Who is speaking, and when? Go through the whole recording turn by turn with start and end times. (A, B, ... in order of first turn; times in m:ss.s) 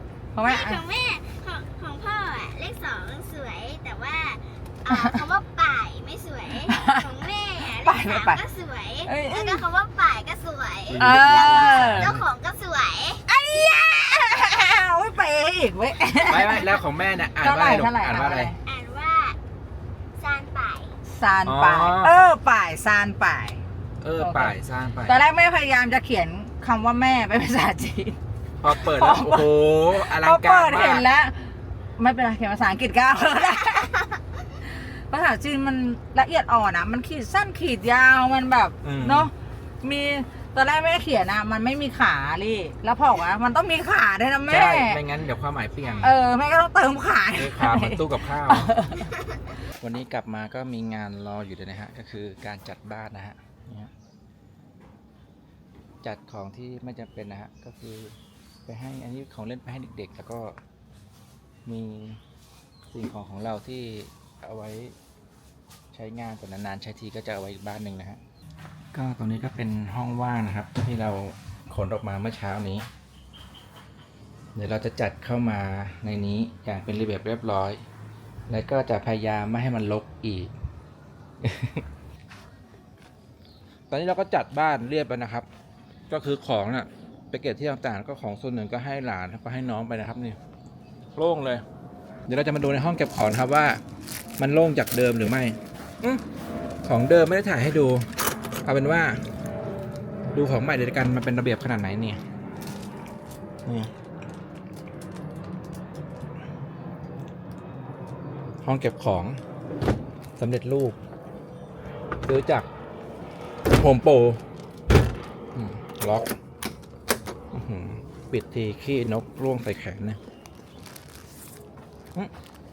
0:00.3-0:00.8 A
0:00.4-0:13.2 B
0:04.9-0:05.2 A
0:06.5-0:08.4 A
0:09.0-0:09.7 A
0:10.9-0:12.2 C
0:11.0-0:12.2 A
0:13.2-0:16.8 A
0:16.3-0:18.5 C
0:17.4-0:18.6 A
0:18.7-0:19.4 B
0:20.2-0:21.0 B
0:21.1-0:23.6 A
0:21.4-0:22.3 C
0:24.0-0:25.2 C
0:24.2-0:34.0 A
0:28.6-0:31.1 C
0:34.6-0:39.3 A
0:38.8-0:39.3 C
0:39.8-0:45.0 A
0:44.5-0:46.2 C
0:46.0-0:49.1 A
0:47.4-0:48.7 C
0:49.8-0:53.9 C
0:56.0-0:58.1 C
0:58.7-1:00.6 C
1:01.7-1:02.2 C
1:02.9-1:05.0 C
1:05.9-1:08.2 C
1:08.9-1:12.9 C
1:14.6-1:17.8 C
1:18.5-1:20.5 C
1:21.4-1:21.8 C
1:23.9-1:25.5 C
1:26.1-1:30.4 C
1:31.2-1:31.6 C
1:32.3-1:33.8 C
1:34.4-1:36.2 C
1:36.8-1:38.1 C
1:38.6-1:39.2 C
1:40.3-1:42.2 C
1:43.7-1:43.9 C
1:48.6-1:49.4 C
1:50.4-1:51.0 C
1:52.3-1:52.7 C
1:53.7-1:54.4 C
1:55.6-1:56.3 C
1:57.5-2:00.2 C